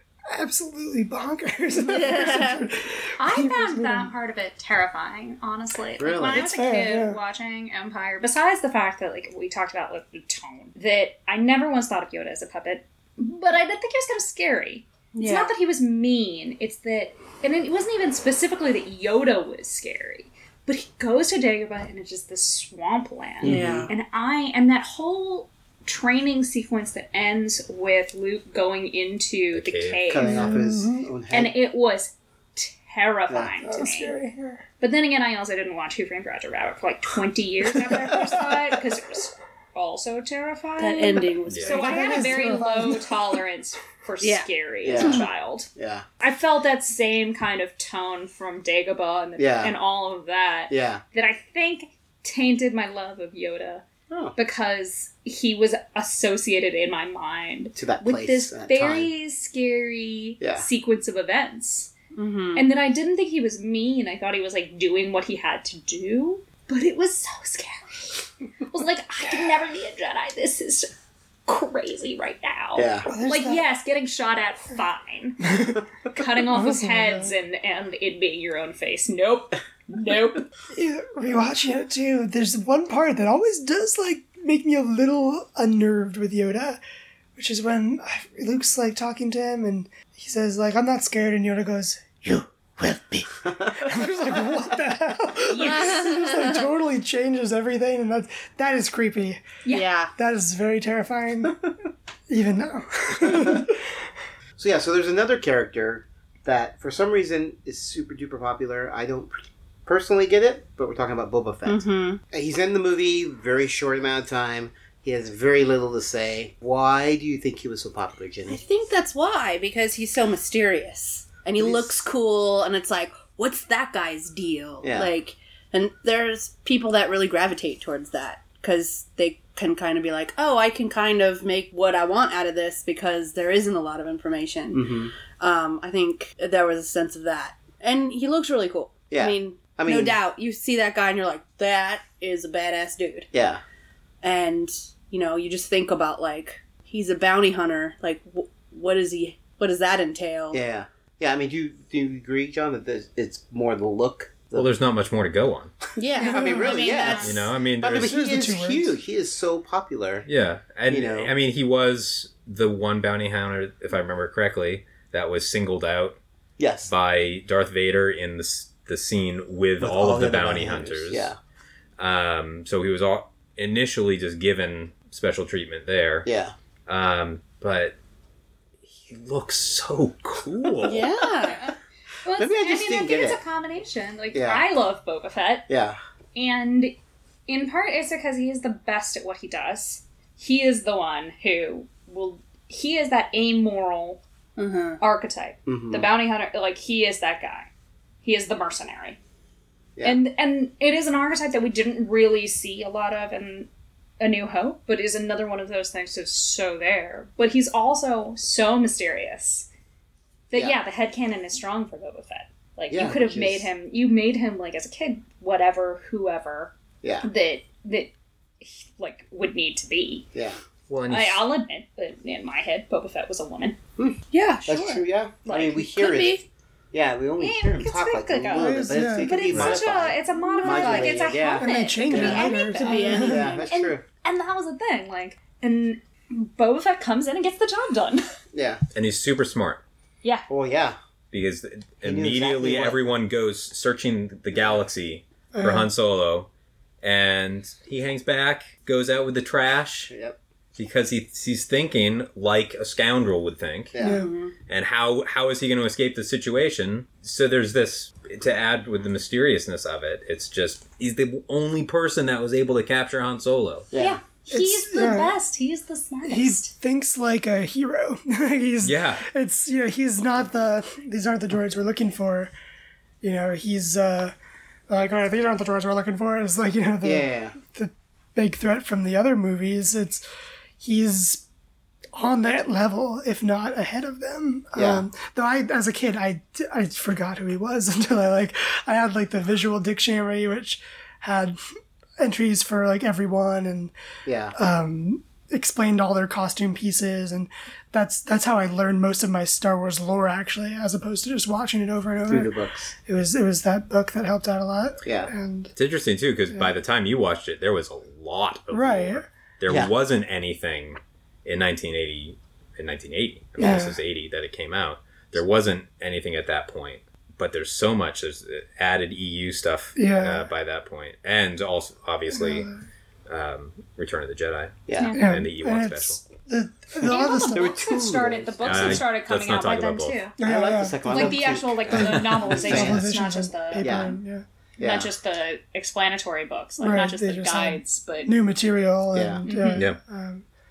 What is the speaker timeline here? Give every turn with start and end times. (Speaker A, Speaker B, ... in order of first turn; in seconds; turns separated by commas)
Speaker A: 0.3-4.1, Speaker B: 1.9-2.6, Speaker C: 3.2-30.5, Speaker D: 6.0-6.5, Speaker A: 6.3-7.2, Speaker B: 15.1-15.5, Speaker D: 23.4-23.9, Speaker B: 23.4-23.9, Speaker E: 29.5-30.1, Speaker D: 30.1-31.5, Speaker A: 30.2-31.0, Speaker C: 31.3-34.1, Speaker A: 33.6-34.6, Speaker C: 34.8-45.7, Speaker A: 37.9-38.6, Speaker B: 40.8-42.7, Speaker A: 41.7-43.3, Speaker B: 44.2-45.2, Speaker D: 44.8-45.2, Speaker D: 45.8-46.0, Speaker C: 46.2-53.8, Speaker D: 49.4-49.7, Speaker D: 50.7-51.0, Speaker D: 54.1-54.3, Speaker C: 54.4-61.9, Speaker D: 57.7-59.1, Speaker D: 60.4-60.6, Speaker B: 62.1-62.7, Speaker C: 62.5-70.9, Speaker C: 71.5-75.4, Speaker D: 72.8-73.1, Speaker A: 73.1-73.7, Speaker A: 75.4-77.3, Speaker C: 76.1-80.5, Speaker A: 80.7-86.8, Speaker A: 87.3-93.2, Speaker D: 93.4-93.7, Speaker A: 93.8-99.4, Speaker C: 95.5-96.0, Speaker B: 95.6-96.6, Speaker B: 99.7-100.1, Speaker A: 100.2-101.6, Speaker A: 102.3-103.8, Speaker D: 104.6-118.6, Speaker B: 111.7-112.2, Speaker B: 118.5-143.3, Speaker D: 121.5-122.0, Speaker D: 124.8-125.1, Speaker D: 134.7-135.1, Speaker D: 139.1-140.2, Speaker D: 143.3-143.6, Speaker B: 144.2-150.6, Speaker D: 150.5-154.7, Speaker E: 154.5-155.7, Speaker B: 156.0-157.3, Speaker C: 156.2-157.4, Speaker D: 156.2-160.3, Speaker A: 156.3-156.6, Speaker E: 157.2-158.1, Speaker A: 158.0-158.9, Speaker E: 160.2-166.2, Speaker D: 160.9-161.3, Speaker D: 166.6-166.9, Speaker E: 166.8-171.3, Speaker D: 169.8-171.4, Speaker E: 172.0-176.3, Speaker D: 176.2-176.5, Speaker E: 176.9-177.9, Speaker E: 178.8-181.1, Speaker B: 180.8-181.7, Speaker C: 181.5-185.6, Speaker D: 182.4-183.4, Speaker D: 184.3-184.6, Speaker D: 185.7-186.0, Speaker C: 186.3-186.9, Speaker C: 187.5-194.2, Speaker B: 194.6-195.0, Speaker C: 195.0-197.7, Speaker D: 195.7-196.1, Speaker C: 198.2-199.2, Speaker C: 200.0-203.7, Speaker C: 204.2-209.7, Speaker C: 210.5-220.2, Speaker D: 212.9-213.7, Speaker E: 220.9-221.4, Speaker C: 221.1-223.8, Speaker D: 224.0-232.5, Speaker B: 224.3-226.4, Speaker C: 225.4-225.8, Speaker C: 227.4-238.2, Speaker A: 228.6-229.5, Speaker B: 230.3-231.3, Speaker A: 231.6-233.4, Speaker B: 232.8-233.6, Speaker D: 233.1-234.0, Speaker D: 238.5-238.8, Speaker E: 238.9-239.8, Speaker D: 240.5-241.0, Speaker E: 241.3-246.5, Speaker D: 242.0-243.1, Speaker D: 244.5-244.8, Speaker A: 245.5-245.9, Speaker E: 247.0-250.1, Speaker D: 250.1-250.4, Speaker E: 250.8-253.9, Speaker D: 253.9-254.2, Speaker A: 254.0-254.2, Speaker B: 254.0-254.5, Speaker E: 254.7-263.9, Speaker D: 263.9-264.2, Speaker C: 263.9-266.7, Speaker A: 264.5-265.4, Speaker A: 266.2-272.5, Speaker E: 268.8-269.2, Speaker A: 273.2-274.3, Speaker A: 274.9-280.2, Speaker D: 277.0-277.6, Speaker A: 280.8-281.4, Speaker A: 282.1-291.6, Speaker D: 284.8-285.0, Speaker A: 292.2-293.9, Speaker D: 294.2-294.5, Speaker A: 294.5-305.7, Speaker D: 302.3-302.9, Speaker D: 305.1-305.3, Speaker E: 305.8-322.7, Speaker A: 308.7-309.3, Speaker D: 309.7-309.9, Speaker A: 313.6-313.9, Speaker A: 319.9-320.4, Speaker A: 322.4-322.7, Speaker E: 323.3-326.2, Speaker D: 324.9-325.1, Speaker C: 324.9-325.2, Speaker A: 325.1-327.8, Speaker C: 327.0-330.4, Speaker D: 327.5-329.1, Speaker E: 328.6-330.2, Speaker A: 330.4-334.4, Speaker D: 330.4-333.1, Speaker C: 331.1-334.1, Speaker D: 333.8-334.1, Speaker D: 334.8-335.1, Speaker C: 334.8-338.3, Speaker A: 336.8-340.4, Speaker D: 339.1-339.4, Speaker C: 339.4-339.8, Speaker E: 339.7-340.0